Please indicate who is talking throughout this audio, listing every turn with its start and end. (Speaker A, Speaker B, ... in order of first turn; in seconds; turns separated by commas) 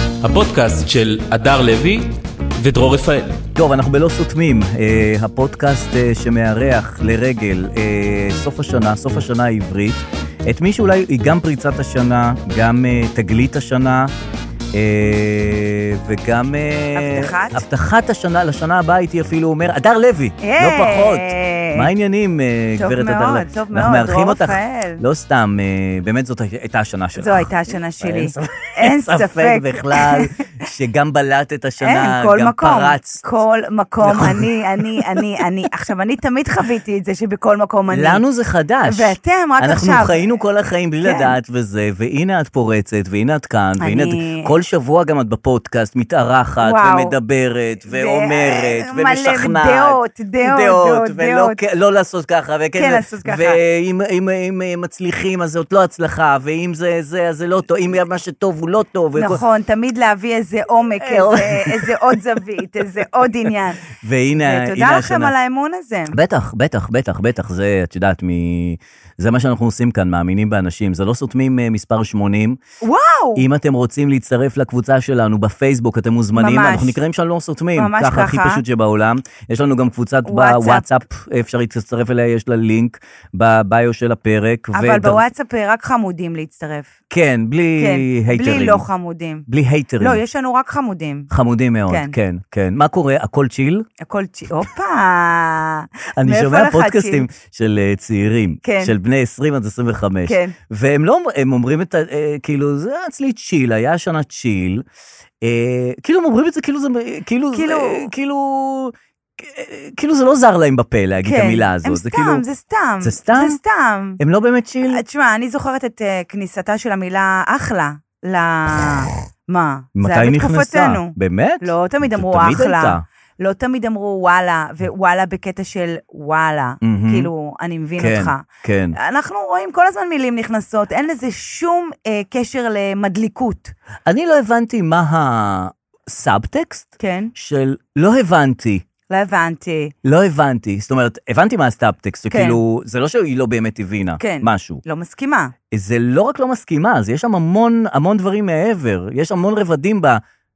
Speaker A: 0.2-3.4, Speaker B: 3.5-14.1, Speaker B: 14.7-33.2, Speaker C: 16.9-17.6, Speaker C: 20.4-21.9, Speaker C: 22.8-25.0, Speaker C: 27.2-30.6, Speaker C: 31.8-38.2, Speaker B: 34.0-35.2, Speaker B: 37.9-59.4, Speaker C: 38.9-40.2, Speaker C: 41.0-41.3, Speaker C: 43.8-44.5, Speaker C: 46.6-47.1, Speaker C: 47.9-51.6, Speaker C: 52.7-53.6, Speaker C: 59.2-63.8, Speaker B: 61.0-62.2, Speaker B: 63.9-65.3, Speaker C: 64.4-66.2, Speaker B: 66.1-72.6, Speaker C: 72.8-73.4, Speaker B: 73.3-85.2, Speaker C: 76.3-77.0, Speaker C: 77.8-78.6, Speaker C: 80.2-80.8, Speaker C: 84.7-86.9, Speaker B: 87.1-88.8, Speaker C: 87.8-89.5, Speaker B: 89.5-90.2, Speaker C: 90.0-91.3, Speaker B: 91.3-93.9, Speaker C: 91.9-92.1, Speaker C: 94.0-97.3, Speaker B: 96.2-104.8, Speaker C: 98.6-98.9, Speaker C: 100.2-100.5, Speaker B: 105.4-112.4, Speaker C: 107.5-108.1, Speaker C: 111.2-114.2, Speaker B: 113.0-113.6, Speaker B: 114.2-115.0, Speaker C: 114.9-133.7, Speaker B: 119.9-123.0, Speaker B: 126.8-127.3, Speaker B: 128.0-128.9, Speaker B: 134.1-138.8, Speaker C: 137.0-137.3, Speaker C: 139.1-139.9, Speaker B: 140.0-144.8, Speaker C: 142.3-142.6, Speaker C: 144.2-145.5, Speaker B: 145.7-150.2